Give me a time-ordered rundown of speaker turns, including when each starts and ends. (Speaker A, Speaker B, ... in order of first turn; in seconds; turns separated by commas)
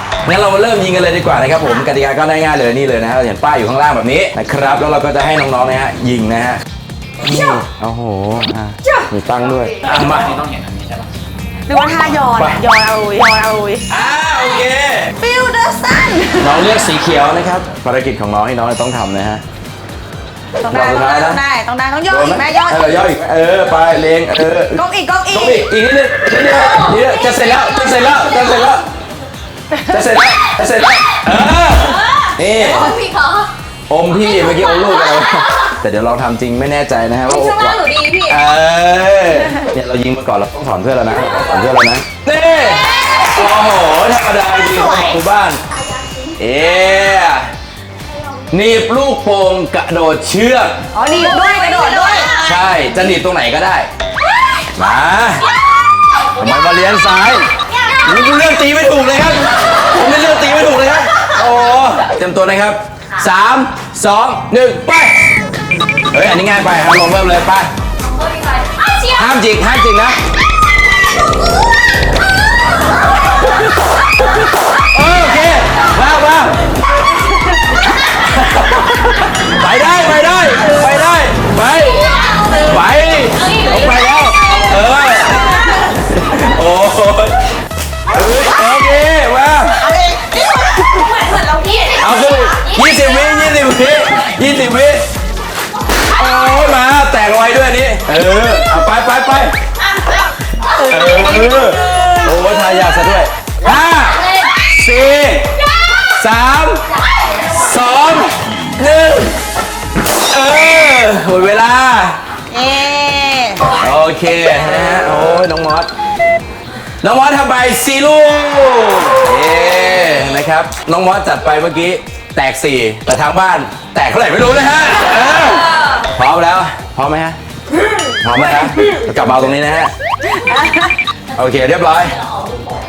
Speaker A: 0.2-6.6, Speaker A: 7.2-10.4, Speaker B: 11.7-13.8, Speaker A: 12.3-12.6, Speaker A: 13.9-15.1, Speaker B: 15.2-16.7, Speaker A: 16.4-19.4, Speaker B: 20.6-23.0, Speaker A: 20.7-21.4, Speaker A: 22.1-28.9, Speaker B: 24.7-25.7, Speaker A: 29.9-33.0, Speaker C: 31.9-33.5, Speaker A: 33.9-45.6, Speaker C: 34.2-35.6, Speaker C: 37.3-38.4, Speaker B: 44.8-45.2, Speaker C: 45.9-47.2, Speaker A: 46.4-47.5, Speaker A: 48.5-50.8, Speaker B: 50.9-52.4, Speaker C: 51.1-52.8, Speaker A: 52.4-53.9, Speaker A: 54.8-55.5, Speaker A: 56.4-57.5, Speaker A: 58.0-65.1, Speaker A: 66.1-67.7, Speaker C: 68.1-69.2, Speaker A: 69.1-70.2, Speaker A: 74.9-76.6, Speaker A: 78.2-82.0, Speaker C: 81.8-85.6, Speaker A: 82.6-85.5, Speaker A: 86.1-87.4, Speaker A: 88.1-89.8, Speaker B: 89.8-91.1, Speaker C: 90.7-93.3, Speaker A: 92.0-95.1, Speaker A: 96.1-99.5, Speaker A: 100.8-105.5, Speaker B: 100.8-102.4, Speaker C: 104.2-104.5, Speaker A: 106.2-106.8, Speaker A: 107.5-109.4, Speaker A: 110.2-112.2, Speaker B: 112.5-113.7, Speaker A: 113.8-115.9, Speaker A: 117.0-127.4, Speaker A: 128.2-129.9, Speaker A: 131.3-132.2